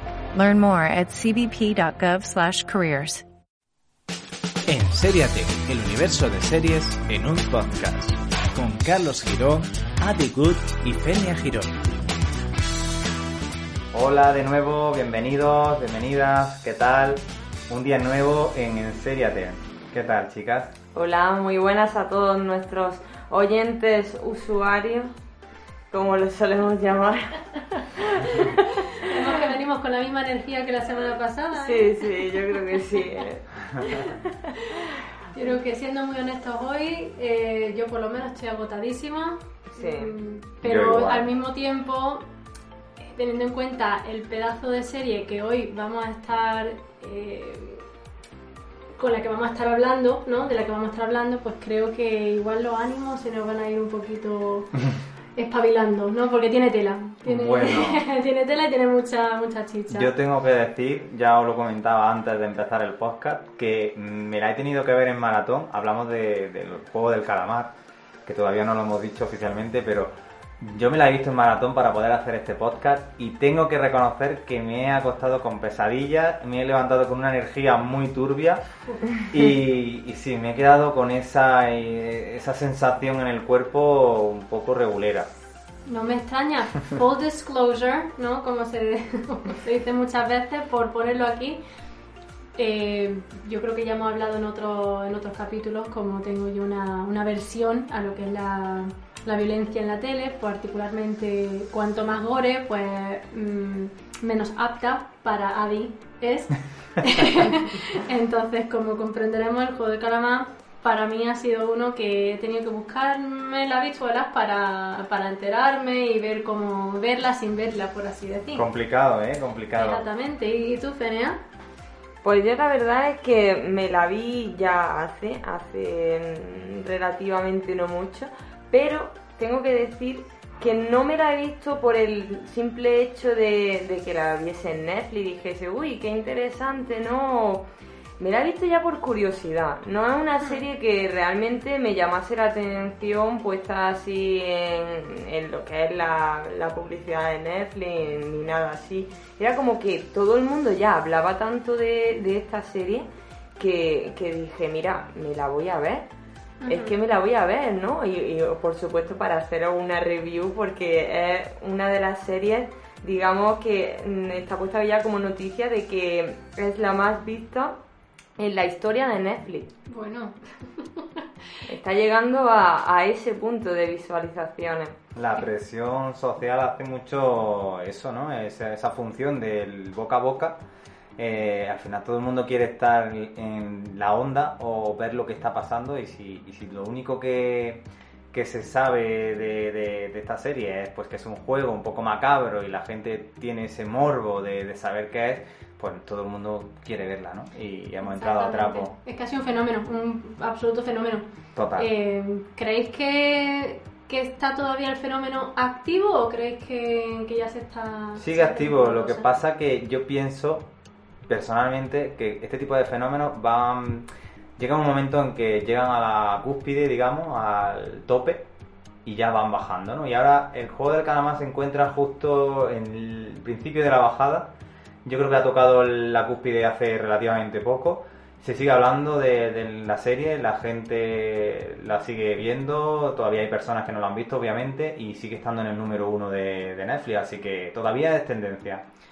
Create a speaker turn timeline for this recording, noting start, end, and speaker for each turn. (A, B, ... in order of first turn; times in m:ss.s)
0:00.3-0:03.2 A
0:04.7-0:11.7 B
0:13.9-0:20.7 C
0:20.9-0:25.1 D
0:25.9-0:29.2 D
0:29.0-0:33.0 E
0:31.5-0:34.3 D
0:34.6-0:42.2 E
0:39.7-0:40.1 D
0:40.6-0:41.3 C
0:43.0-0:47.8 E
0:49.0-0:54.8 E
0:55.4-1:00.1 E
0:57.2-0:58.0 C
0:59.9-1:07.7 C
1:08.2-1:25.3 C
1:25.8-1:31.6 E
1:32.6-1:58.6 E
1:58.5-2:00.0 C
1:59.8-2:01.4 E
2:02.2-2:17.6 D
2:18.2-2:36.1 D
2:36.6-2:36.9 E
2:36.6-2:47.8 D
2:48.4-2:49.7 D
2:49.9-2:51.2 E
2:51.7-2:55.0 D
2:55.1-3:00.6 C
3:01.2-3:18.9 C
3:18.0-3:21.3 E
3:21.5-3:21.9 C
3:21.8-3:29.3 E
3:28.2-3:30.7 C
3:31.3-3:34.0 C
3:34.6-3:38.4 C
3:39.0-3:44.5 C
3:45.0-3:58.8 C